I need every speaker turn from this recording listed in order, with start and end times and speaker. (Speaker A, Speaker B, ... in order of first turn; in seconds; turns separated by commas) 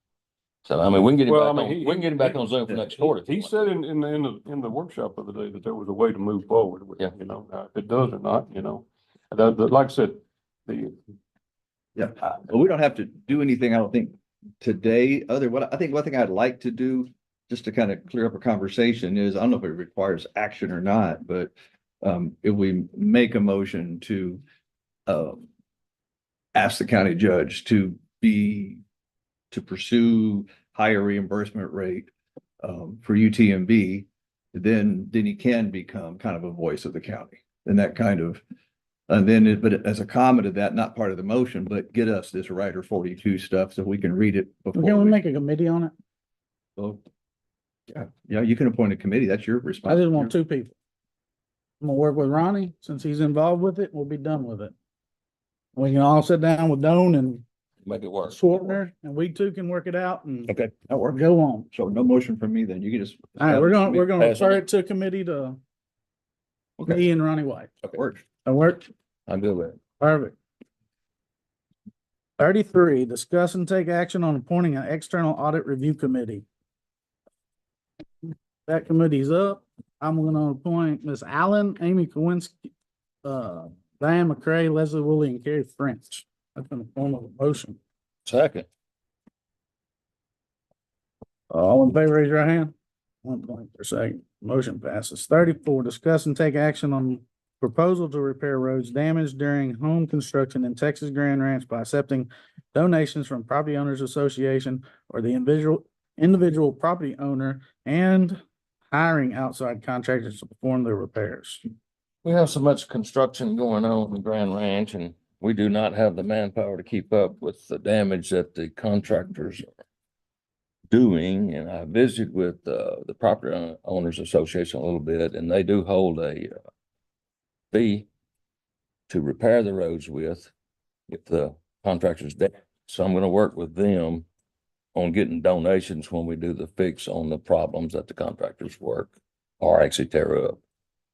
Speaker A: 0.7-3.7, Speaker B: 1.2-11.0, Speaker C: 12.0-24.4, Speaker C: 25.1-25.5, Speaker C: 26.6-28.8, Speaker C: 29.5-38.4, Speaker C: 39.1-45.2, Speaker D: 44.7-45.9, Speaker C: 46.8-47.0, Speaker C: 47.9-50.3, Speaker D: 49.9-50.8, Speaker D: 51.8-54.7, Speaker D: 55.8-57.4, Speaker A: 57.8-58.7, Speaker D: 58.3-60.5, Speaker A: 60.5-60.8, Speaker C: 60.9-64.1, Speaker D: 61.1-61.7, Speaker D: 63.4-65.6, Speaker A: 64.2-64.6, Speaker D: 66.8-67.7, Speaker C: 67.8-68.2, Speaker D: 68.5-68.9, Speaker A: 69.3-69.8, Speaker D: 70.0-70.3, Speaker D: 72.4-76.5, Speaker D: 78.3-82.7, Speaker D: 83.2-87.8, Speaker A: 88.3-88.7, Speaker D: 91.5-92.7, Speaker D: 93.2-108.4, Speaker D: 108.9-111.6, Speaker A: 112.2-119.7, Speaker A: 120.9-126.5, Speaker A: 127.7-128.1, Speaker A: 129.1-130.5, Speaker A: 131.1-134.3, Speaker A: 134.9-140.6